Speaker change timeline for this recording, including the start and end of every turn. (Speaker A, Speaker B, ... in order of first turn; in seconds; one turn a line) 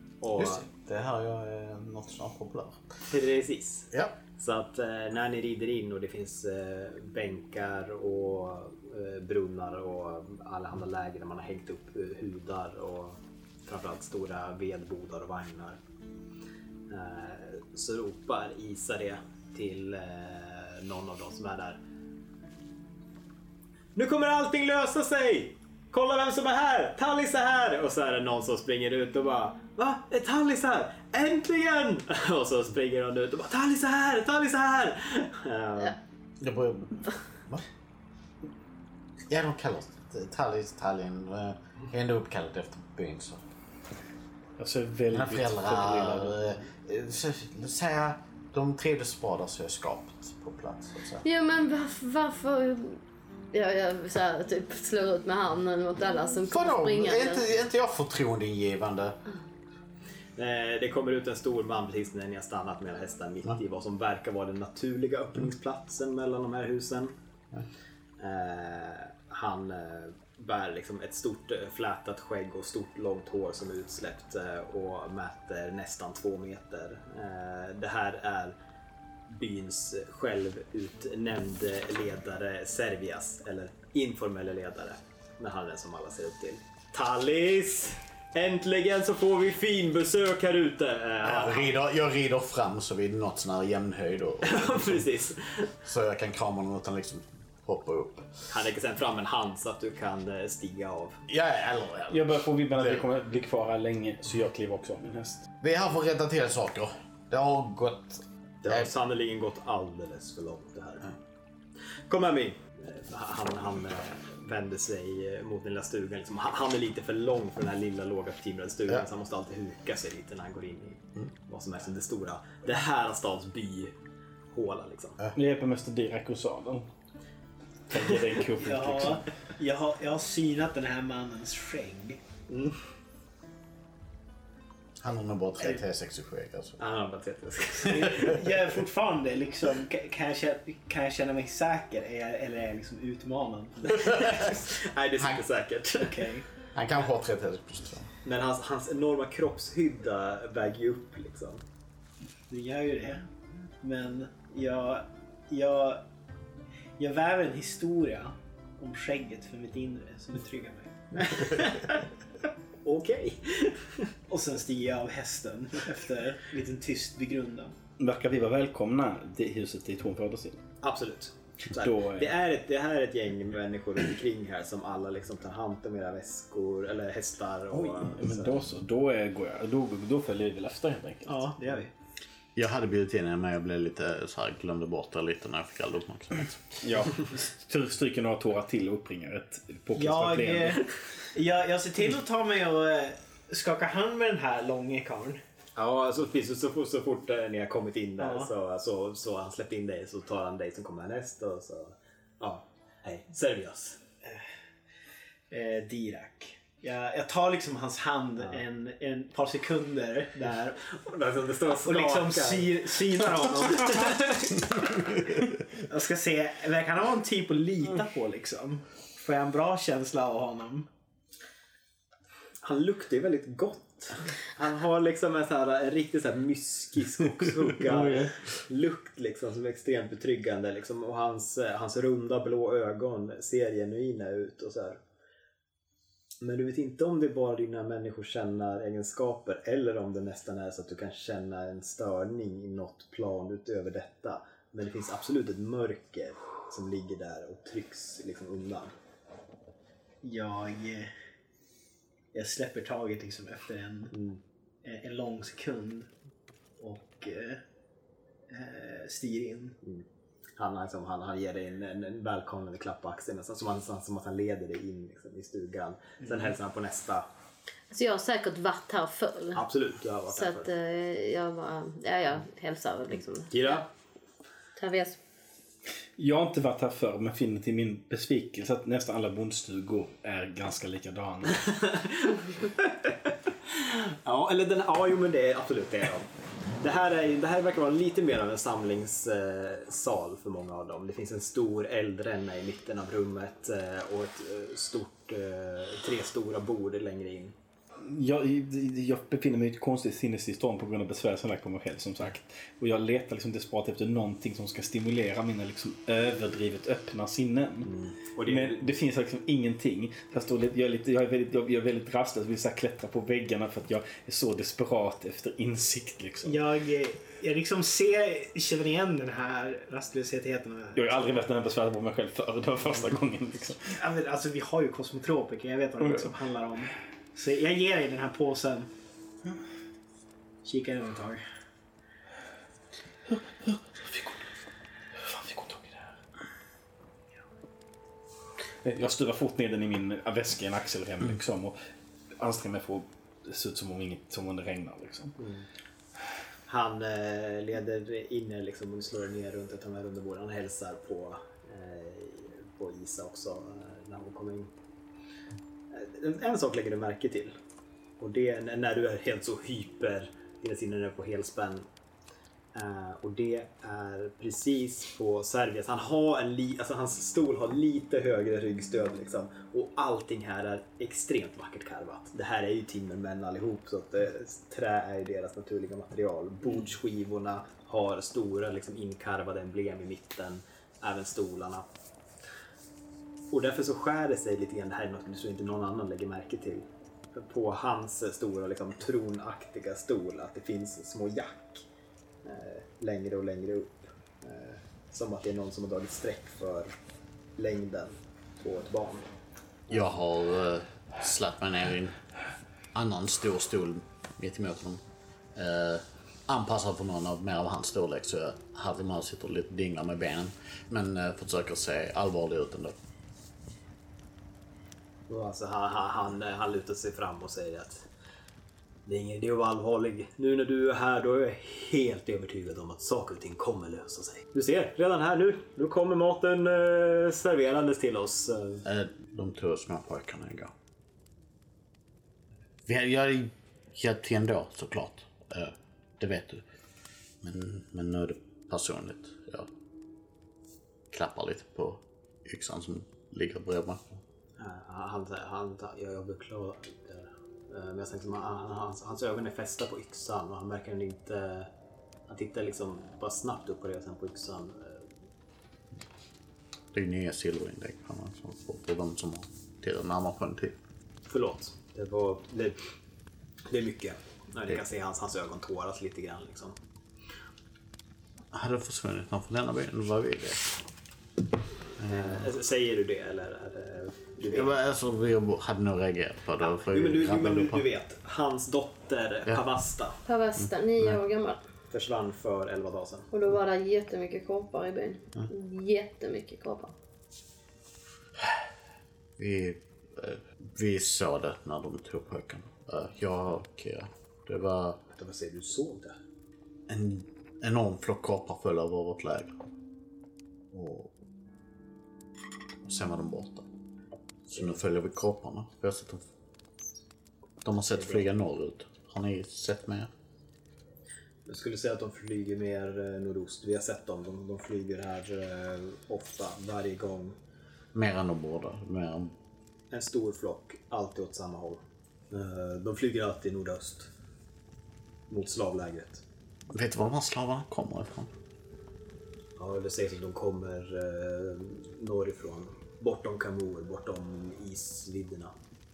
Speaker A: 0.2-0.6
Speaker B: 0.4-3.0
Speaker A: 3.1-15.8
Speaker B: 3.9-4.2
Speaker A: 16.9-21.8
Speaker A: 23.9-36.0
Speaker B: 36.4-37.6
Speaker B: 39.3-43.4
Speaker C: 44.6-46.4
Speaker B: 45.1-51.2
Speaker D: 51.2-53.0
Speaker D: 53.5-57.4
Speaker B: 56.5-59.2
Speaker A: 60.4-67.1
Speaker A: 68.2-78.5
Speaker A: 79.3-91.7
Speaker B: 91.2-95.1
Speaker A: 94.4-95.7
Speaker B: 95.8-98.3
Speaker A: 98.5-101.2
Speaker B: 101.3-103.0
Speaker C: 102.1-105.5
Speaker B: 105.6-108.9
Speaker A: 108.6-111.1
Speaker A: 112.1-123.9
Speaker A: 124.5-125.2
Speaker C: 125.3-126.9
Speaker C: 127.9-129.2
Speaker E: 128.6-132.2
Speaker A: 132.5-132.8
Speaker B: 135.0-136.8
Speaker A: 136.8-138.4
Speaker E: 137.9-144.4
Speaker B: 144.0-144.4
Speaker A: 144.1-146.2
Speaker E: 146.0-146.4
Speaker B: 146.7-148.1
Speaker A: 148.2-151.6
Speaker E: 152.5-153.3
Speaker E: 153.8-156.0
Speaker E: 157.0-161.9
Speaker A: 162.8-164.1
Speaker E: 164.3-167.7
Speaker C: 168.0-170.6
Speaker A: 170.8-178.7
Speaker C: 171.7-172.3
Speaker C: 177.7-181.5
Speaker E: 181.3-181.9
Speaker B: 182.6-186.6
Speaker C: 186.8-190.8
Speaker E: 189.9-195.4
Speaker A: 195.8-204.0
Speaker E: 198.2-198.5
Speaker E: 205.5-210.8
Speaker A: 210.8-212.8
Speaker E: 211.8-215.0
Speaker A: 213.7-214.1
Speaker E: 215.7-220.9
Speaker A: 222.6-235.0
Speaker C: 227.8-228.3
Speaker A: 236.4-248.9
Speaker E: 250.2-251.1
Speaker E: 252.3-254.1
Speaker A: 254.1-254.4
Speaker E: 254.8-256.1
Speaker E: 256.8-257.6
Speaker E: 258.5-259.8
Speaker A: 260.6-267.3
Speaker D: 267.9-269.6
Speaker A: 269.5-270.7
Speaker D: 270.3-273.8
Speaker A: 273.5-273.9
Speaker D: 274.8-275.2
Speaker C: 276.2-281.8
Speaker A: 281.7-283.1
Speaker A: 283.7-286.3
Speaker A: 286.8-297.5
Speaker C: 298.0-307.9
Speaker A: 307.8-308.9
Speaker C: 308.4-316.6
Speaker E: 316.4-321.0
Speaker C: 320.9-323.9
Speaker E: 323.9-328.9
Speaker C: 326.0-326.3
Speaker E: 330.6-331.4
Speaker C: 333.3-334.4
Speaker C: 335.1-336.2
Speaker C: 338.8-341.8
Speaker C: 342.4-345.4
Speaker A: 345.4-345.6
Speaker A: 346.7-354.7
Speaker A: 355.9-357.6
Speaker A: 358.2-361.9
Speaker A: 362.7-381.8
Speaker A: 383.5-391.8
Speaker A: 392.4-396.9
Speaker A: 397.6-399.3
Speaker B: 399.9-402.1
Speaker B: 402.9-405.0
Speaker B: 405.5-412.9
Speaker A: 415.3-418.1
Speaker A: 419.1-428.8
Speaker B: 428.8-430.7
Speaker B: 432.9-436.6
Speaker B: 437.4-439.7
Speaker B: 441.1-444.2
Speaker A: 444.6-451.7
Speaker A: 452.3-455.1
Speaker B: 456.9-460.8
Speaker A: 461.3-462.8
Speaker A: 463.7-466.7
Speaker B: 468.5-470.7
Speaker B: 472.0-472.5
Speaker A: 472.1-474.8
Speaker B: 474.5-477.8
Speaker A: 476.6-480.2
Speaker D: 480.2-481.6
Speaker A: 481.9-483.3
Speaker D: 483.3-486.9
Speaker B: 489.4-495.0
Speaker A: 495.1-496.2
Speaker B: 496.9-499.6
Speaker B: 500.7-501.1
Speaker B: 502.8-503.6
Speaker B: 504.5-506.2
Speaker B: 507.6-510.1
Speaker A: 507.9-508.2
Speaker A: 511.4-517.4
Speaker B: 517.9-519.3
Speaker A: 519.9-524.1
Speaker A: 525.3-526.2
Speaker B: 526.7-528.3
Speaker A: 529.6-535.5